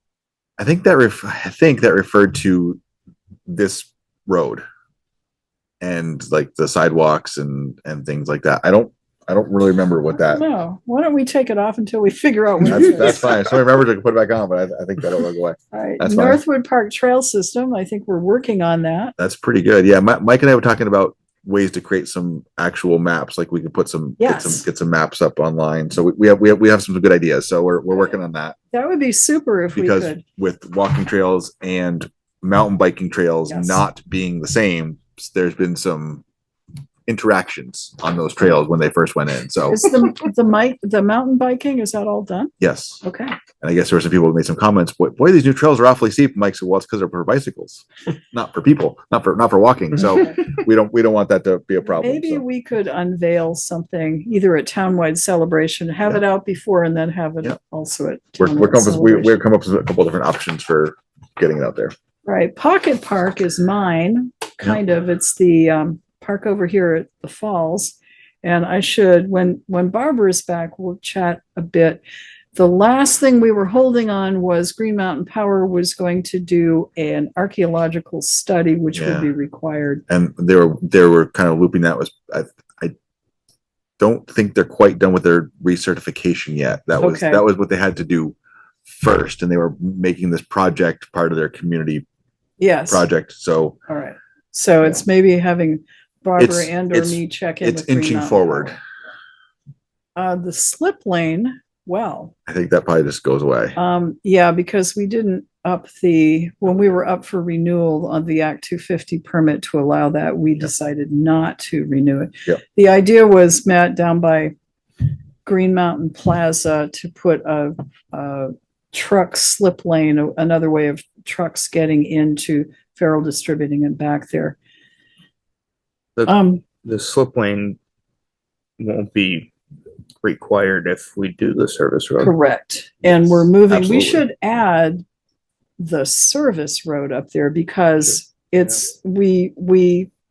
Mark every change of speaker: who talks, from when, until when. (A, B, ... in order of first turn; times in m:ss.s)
0:00.6-0:02.8 A
0:03.5-0:04.6 A
0:05.8-0:10.4 A
0:10.1-0:13.3 B
0:12.6-0:16.4 A
0:15.7-0:19.2 B
0:19.2-0:28.6 A
0:24.2-0:24.6 B
0:28.7-0:30.2 B
0:29.7-0:36.2 A
0:33.5-0:33.8 B
0:37.1-0:39.8 A
0:39.7-0:42.5 B
0:42.6-0:43.0 A
0:43.0-0:43.4 B
0:43.6-0:52.4 A
0:52.0-0:59.4 B
0:58.4-1:01.9 A
1:02.2-1:12.0 B
1:12.5-1:20.0 B
1:19.0-1:19.3 A
1:20.1-1:22.9 A
1:24.0-1:28.4 A
1:27.0-1:27.4 B
1:28.9-1:32.0 A
1:32.6-1:33.1 B
1:32.9-1:33.8 A
1:33.9-1:38.7 B
1:36.4-1:38.8 A
1:40.2-1:42.3 B
1:42.5-1:43.8 A
1:43.8-1:54.5 B
1:55.4-2:04.6 B
2:06.3-2:06.6 B
2:06.8-2:07.8 C
2:08.8-2:09.5 C
2:10.2-2:12.4 C
2:12.2-2:15.0 B
2:13.7-2:14.2 A
2:15.8-2:20.1 B